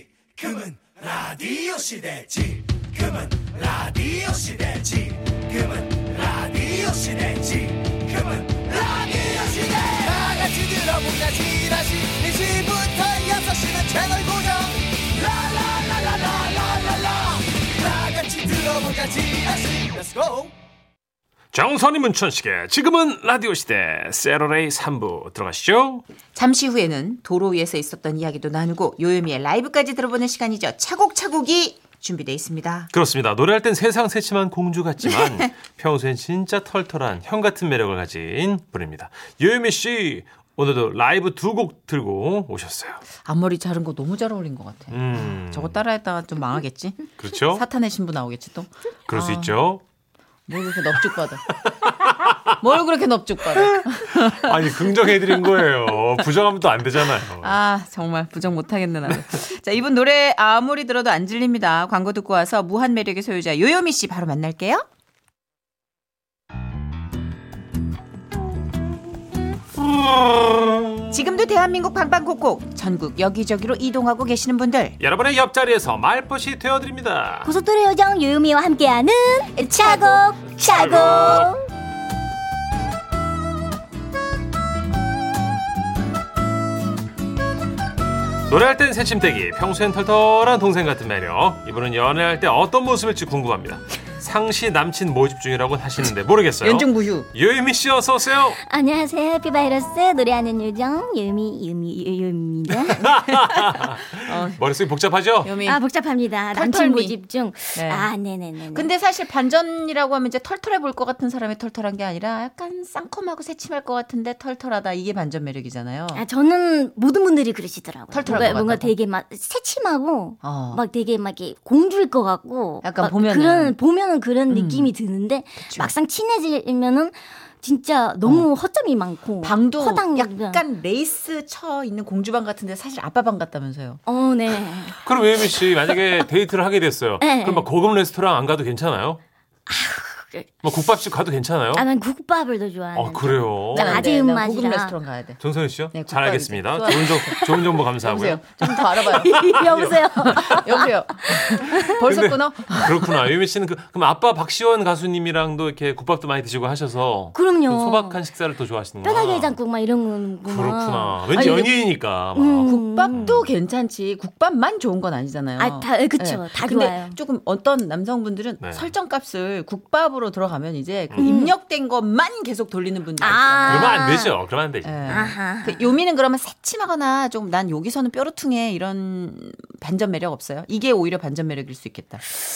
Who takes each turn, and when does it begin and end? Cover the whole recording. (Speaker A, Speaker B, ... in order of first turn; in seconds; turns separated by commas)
Speaker A: 0.4-2.4, Speaker A: 3.9-4.8, Speaker A: 6.3-7.6, Speaker A: 8.6-20.5, Speaker B: 21.5-26.0, Speaker C: 26.4-32.9, Speaker B: 32.9-43.0, Speaker C: 35.0-35.5, Speaker C: 43.2-49.6, Speaker B: 44.9-45.8, Speaker B: 47.2-47.6, Speaker B: 49.1-49.8, Speaker C: 50.5-51.4, Speaker B: 51.5-52.5, Speaker C: 52.5-54.9, Speaker B: 53.5-57.6, Speaker C: 57.4-64.8, Speaker B: 69.8-71.2, Speaker C: 71.1-75.0, Speaker B: 75.0-77.5, Speaker D: 77.5-81.7, Speaker C: 79.6-81.4, Speaker B: 80.6-81.6, Speaker B: 88.5-98.6, Speaker C: 96.6-97.3, Speaker D: 98.6-103.4, Speaker B: 102.8-105.5, Speaker C: 103.7-104.7, Speaker C: 105.4-105.8, Speaker D: 105.6-108.9, Speaker C: 106.5-107.2, Speaker C: 107.8-108.1, Speaker C: 108.7-116.2, Speaker D: 116.1-130.6, Speaker C: 118.1-119.0, Speaker C: 120.4-120.8, Speaker C: 122.8-123.8, Speaker C: 124.5-124.9, Speaker C: 125.6-125.9, Speaker C: 128.2-128.5, Speaker C: 129.4-134.0, Speaker D: 134.1-135.0, Speaker B: 135.0-139.2, Speaker D: 137.2-137.7, Speaker D: 139.7-140.7, Speaker B: 140.6-141.8, Speaker D: 141.7-145.0, Speaker B: 142.9-144.1, Speaker C: 143.7-153.3, Speaker B: 145.4-148.6, Speaker D: 148.7-152.0, Speaker B: 149.3-150.8, Speaker B: 151.5-159.6, Speaker D: 157.3-158.2, Speaker D: 159.0-161.7, Speaker B: 160.5-163.5, Speaker C: 161.3-161.8, Speaker D: 162.3-163.3, Speaker C: 162.7-174.0, Speaker D: 165.6-167.2, Speaker B: 168.6-168.9, Speaker D: 171.2-171.5, Speaker D: 173.2-174.3, Speaker B: 173.2-175.3, Speaker C: 174.8-182.2, Speaker D: 175.1-176.0